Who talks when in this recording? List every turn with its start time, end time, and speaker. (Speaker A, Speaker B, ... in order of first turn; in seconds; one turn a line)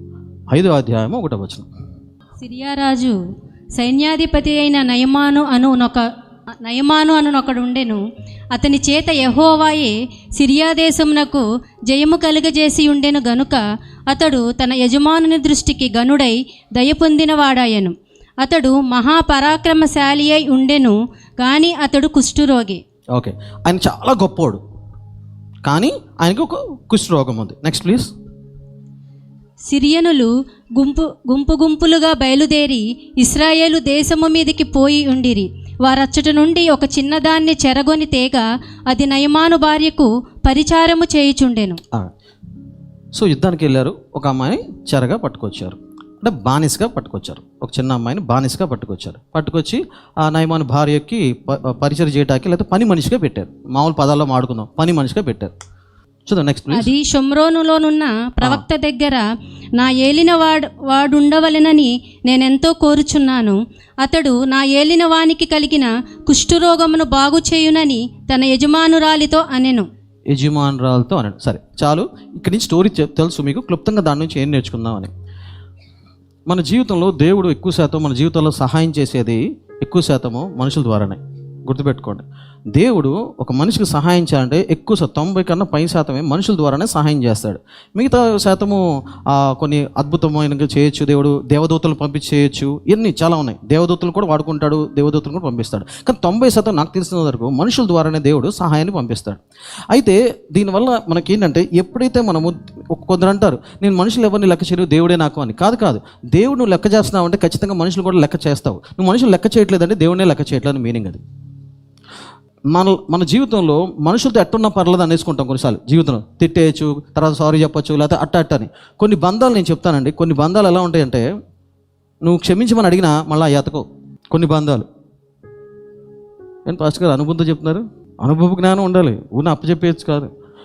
Speaker A: 0.5-1.6
Speaker B: 2.4-3.1
Speaker B: 3.8-6.0
Speaker B: 6.6-8.0
Speaker B: 8.5-22.8
Speaker A: 23.1-24.6
Speaker A: 25.6-28.1
Speaker B: 29.7-41.8
Speaker A: 43.1-55.5
Speaker A: 56.2-56.9
Speaker B: 56.7-59.2
Speaker B: 59.8-69.9
Speaker A: 70.3-75.1
Speaker A: 76.5-99.4
Speaker A: 99.9-111.2
Speaker A: 112.7-121.2
Speaker A: 122.2-124.8
Speaker A: 126.7-130.3